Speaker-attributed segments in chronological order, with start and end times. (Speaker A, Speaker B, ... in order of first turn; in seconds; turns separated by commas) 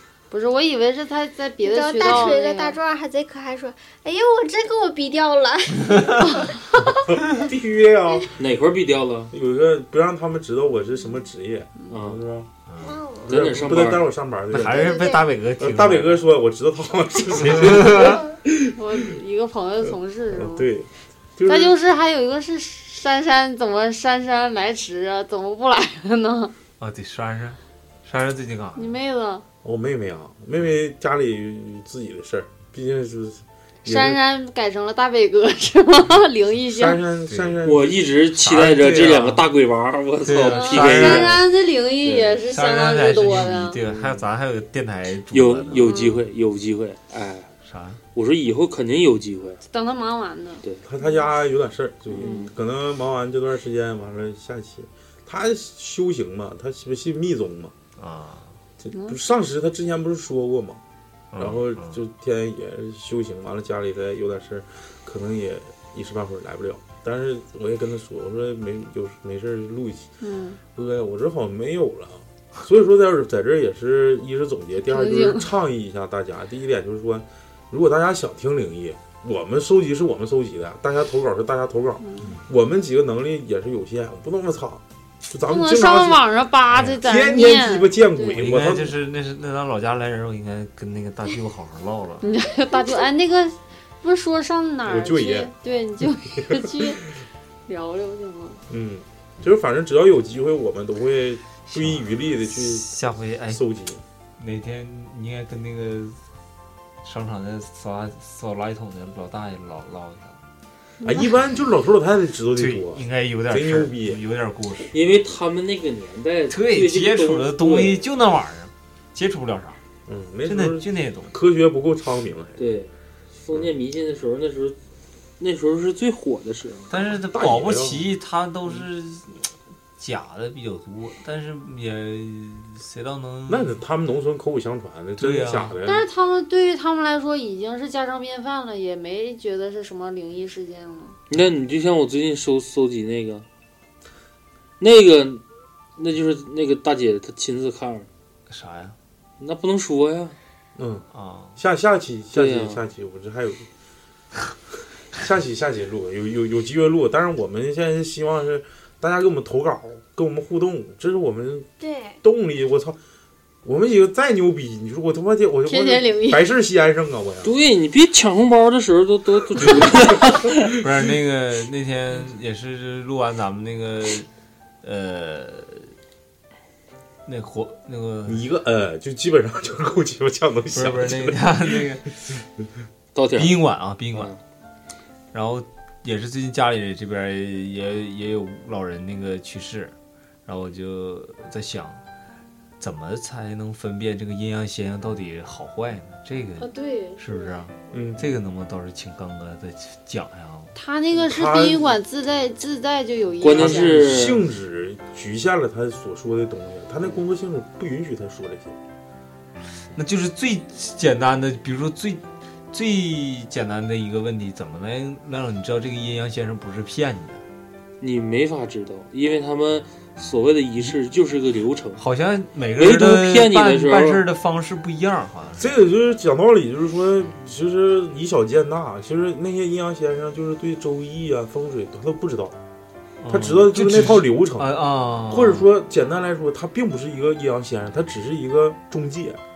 Speaker A: 0.3-2.8, Speaker B: 1.6-7.0, Speaker C: 7.0-8.3, Speaker D: 8.4-9.3, Speaker C: 9.3-12.5, Speaker D: 11.9-12.2, Speaker E: 12.7-13.0, Speaker B: 12.8-13.4, Speaker D: 13.3-14.1, Speaker C: 13.3-15.0, Speaker E: 14.5-16.3, Speaker B: 14.6-15.4, Speaker C: 15.6-18.8, Speaker E: 17.3-18.3, Speaker A: 18.7-20.7, Speaker C: 20.3-21.8, Speaker A: 21.5-26.5, Speaker E: 26.8-28.9, Speaker A: 28.8-29.4, Speaker C: 29.6-34.2, Speaker A: 33.9-37.0, Speaker C: 36.7-39.4, Speaker E: 37.3-37.6, Speaker D: 37.6-41.4, Speaker E: 38.5-39.4, Speaker E: 40.2-41.5, Speaker A: 40.5-43.8, Speaker E: 42.0-46.0, Speaker D: 43.9-44.3, Speaker D: 45.3-47.5, Speaker A: 45.9-46.2, Speaker E: 47.6-48.0, Speaker D: 48.1-49.6, Speaker A: 49.7-50.6, Speaker C: 50.9-57.8, Speaker D: 52.1-52.5, Speaker A: 52.2-52.5, Speaker E: 58.0-58.5, Speaker C: 58.8-60.8, Speaker A: 58.9-59.2, Speaker E: 61.3-62.0, Speaker C: 61.4-70.1, Speaker A: 70.2-70.6, Speaker C: 70.8-86.2, Speaker A: 74.8-75.5, Speaker A: 82.0-82.3, Speaker A: 85.5-88.4, Speaker E: 86.7-87.0, Speaker C: 86.8-89.0, Speaker E: 88.3-92.2, Speaker A: 92.2-97.0, Speaker C: 94.9-95.5, Speaker C: 96.3-96.9, Speaker A: 97.7-98.6, Speaker C: 98.7-102.9, Speaker E: 101.7-103.6, Speaker C: 103.5-104.0, Speaker E: 104.4-106.2, Speaker E: 107.0-110.4, Speaker C: 111.0-114.2, Speaker E: 112.6-115.0, Speaker D: 114.9-118.0, Speaker E: 116.5-119.8, Speaker C: 120.1-122.7, Speaker E: 120.5-121.3, Speaker D: 122.6-124.8, Speaker D: 125.4-127.0, Speaker E: 126.9-133.8, Speaker C: 127.2-128.1, Speaker C: 133.5-136.1, Speaker E: 135.2-135.8, Speaker A: 135.8-141.2, Speaker D: 141.3-143.4, Speaker D: 144.8-145.4, Speaker D: 146.0-148.1, Speaker E: 148.5-149.0, Speaker D: 149.4-150.4, Speaker C: 150.8-151.1, Speaker E: 151.1-151.6, Speaker C: 151.6-153.7, Speaker D: 152.3-152.8, Speaker C: 155.2-161.7, Speaker B: 161.8-162.2, Speaker C: 162.2-163.0, Speaker C: 163.6-167.5, Speaker A: 165.7-166.4, Speaker D: 167.4-170.7, Speaker C: 169.6-169.9, Speaker E: 170.7-174.3, Speaker E: 174.8-175.9, Speaker E: 177.2-178.5, Speaker C: 178.3-182.0, Speaker E: 180.7-182.1, Speaker D: 183.2-184.4, Speaker E: 183.4-184.3, Speaker E: 185.3-189.9, Speaker E: 190.5-192.0, Speaker E: 192.8-200.7, Speaker A: 196.6-197.6, Speaker C: 197.9-198.3, Speaker A: 200.8-204.1, Speaker C: 201.2-202.0, Speaker D: 203.4-204.4, Speaker C: 203.5-208.8, Speaker E: 210.0-217.4, Speaker D: 218.0-222.0, Speaker E: 222.0-225.7, Speaker D: 222.8-224.2, Speaker C: 225.6-232.6, Speaker E: 233.2-235.7, Speaker C: 233.3-239.4